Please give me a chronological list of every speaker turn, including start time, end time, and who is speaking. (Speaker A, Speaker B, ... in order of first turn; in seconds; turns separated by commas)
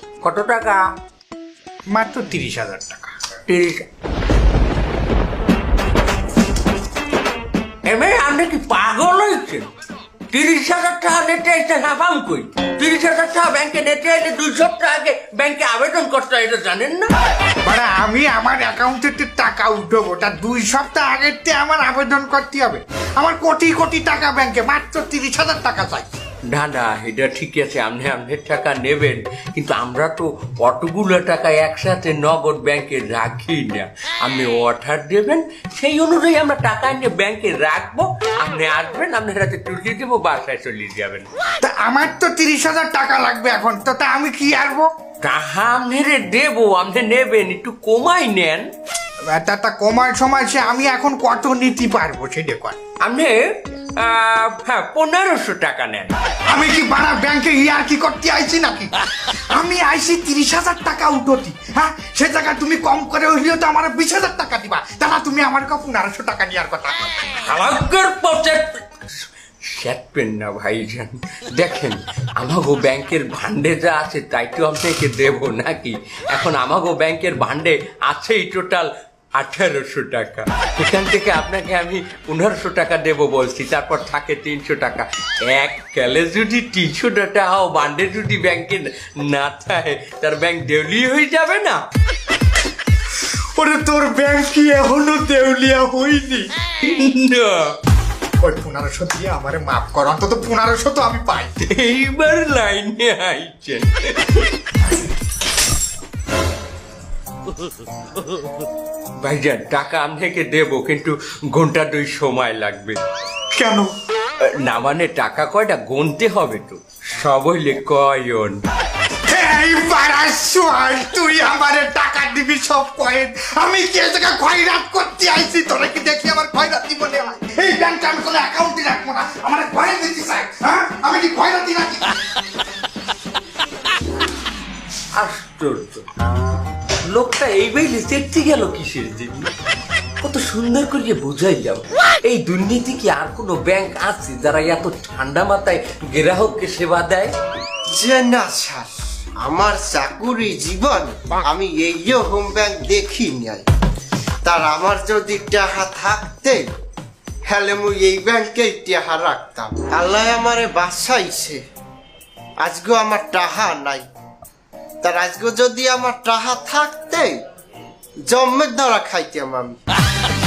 Speaker A: 0.2-0.8, Speaker B: 1.9-3.2, Speaker A: 3.5-3.9, Speaker A: 7.8-9.7, Speaker A: 10.3-17.1, Speaker B: 17.6-26.1, Speaker A: 26.5-41.3, Speaker B: 41.6-44.9, Speaker A: 45.2-48.7, Speaker B: 49.3-52.8, Speaker A: 53.0-56.1, Speaker B: 56.5-58.9, Speaker B: 59.5-67.1, Speaker A: 67.3-68.8, Speaker A: 69.7-91.8, Speaker B: 93.5-96.5, Speaker A: 96.8-97.8, Speaker B: 98.4-101.5, Speaker A: 101.6-104.5, Speaker A: 109.2-113.0, Speaker B: 113.5-113.9, Speaker A: 114.4-118.6, Speaker B: 119.3-132.2, Speaker A: 135.2-136.1, Speaker A: 137.1-139.5, Speaker A: 140.2-147.3, Speaker C: 148.0-148.9, Speaker C: 149.4-153.6, Speaker C: 154.5-156.6, Speaker C: 157.5-161.6, Speaker C: 162.6-164.0, Speaker C: 165.0-167.3, Speaker C: 168.3-169.7